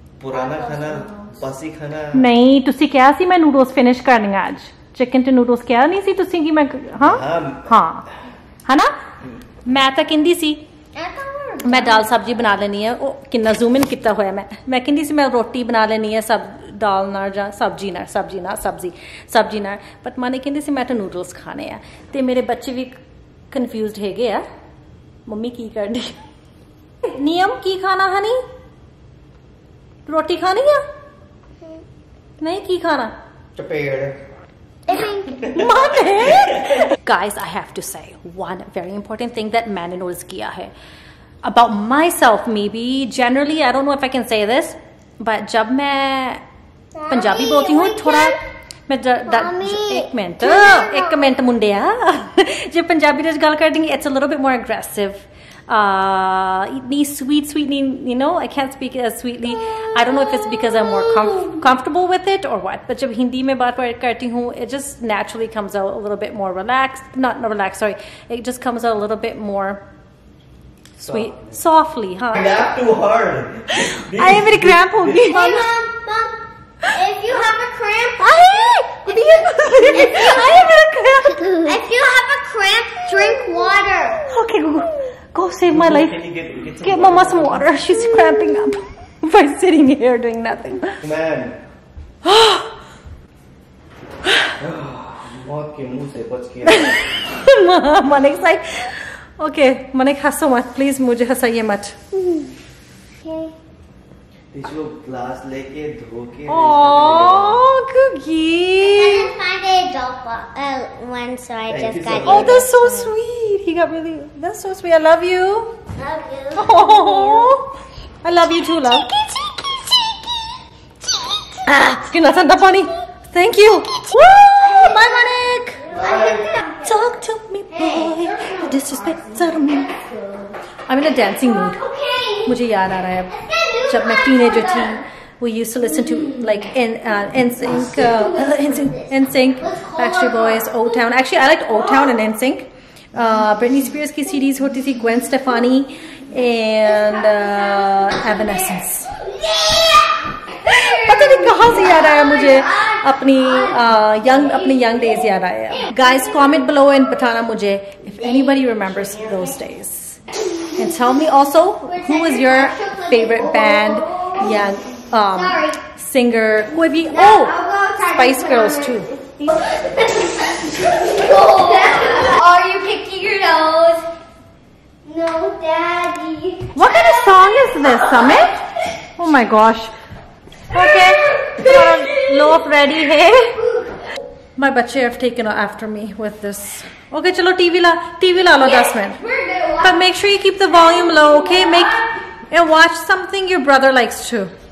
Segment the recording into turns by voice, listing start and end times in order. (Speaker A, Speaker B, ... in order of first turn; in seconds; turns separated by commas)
Speaker A: 0.2-2.2, Speaker B: 0.3-1.3, Speaker C: 2.1-8.1, Speaker A: 7.0-7.7, Speaker C: 8.7-8.9, Speaker C: 9.7-10.7, Speaker B: 10.9-12.1, Speaker C: 11.6-23.0, Speaker C: 23.5-24.4, Speaker C: 25.3-26.2, Speaker C: 27.0-28.4, Speaker C: 30.1-30.8, Speaker C: 32.4-33.1, Speaker A: 33.6-34.2, Speaker B: 34.9-35.4, Speaker C: 35.4-40.7, Speaker C: 41.4-46.4, Speaker B: 47.0-48.3, Speaker C: 47.1-48.4, Speaker C: 48.9-69.8, Speaker B: 49.3-51.2, Speaker C: 71.0-72.5, Speaker A: 71.0-71.4, Speaker A: 72.3-75.3, Speaker C: 74.1-75.7, Speaker B: 75.3-76.4, Speaker B: 76.9-80.7, Speaker C: 78.2-81.8, Speaker B: 81.5-84.2, Speaker C: 84.3-86.3, Speaker A: 85.7-87.7, Speaker C: 86.8-91.0, Speaker A: 91.0-91.6, Speaker C: 92.2-92.7, Speaker A: 94.6-97.1, Speaker C: 96.6-102.0, Speaker B: 103.2-103.5, Speaker A: 104.5-107.6, Speaker C: 106.5-109.3, Speaker B: 108.8-113.1, Speaker A: 111.7-112.6, Speaker C: 112.2-115.8, Speaker B: 116.0-117.5, Speaker C: 116.6-117.7, Speaker C: 118.2-119.1, Speaker B: 119.1-120.0, Speaker C: 121.6-125.8, Speaker B: 124.5-125.2, Speaker B: 125.8-126.9, Speaker A: 126.0-126.4, Speaker C: 126.8-129.9, Speaker B: 127.7-130.6, Speaker C: 130.9-131.8, Speaker B: 131.7-132.5, Speaker C: 132.4-149.2, Speaker B: 133.3-135.0, Speaker B: 137.8-139.1, Speaker B: 139.6-140.8, Speaker B: 147.1-148.5, Speaker B: 149.2-155.1, Speaker C: 150.7-160.2, Speaker B: 155.9-156.5, Speaker B: 158.2-159.5, Speaker C: 160.8-169.1, Speaker B: 161.8-164.6, Speaker B: 165.3-165.8, Speaker B: 167.1-174.1, Speaker B: 175.0-176.8, Speaker C: 176.7-178.6, Speaker C: 179.2-179.9, Speaker C: 180.7-183.6, Speaker B: 181.1-182.3, Speaker B: 183.6-183.9, Speaker C: 184.6-189.2, Speaker B: 189.0-189.9, Speaker C: 189.8-194.5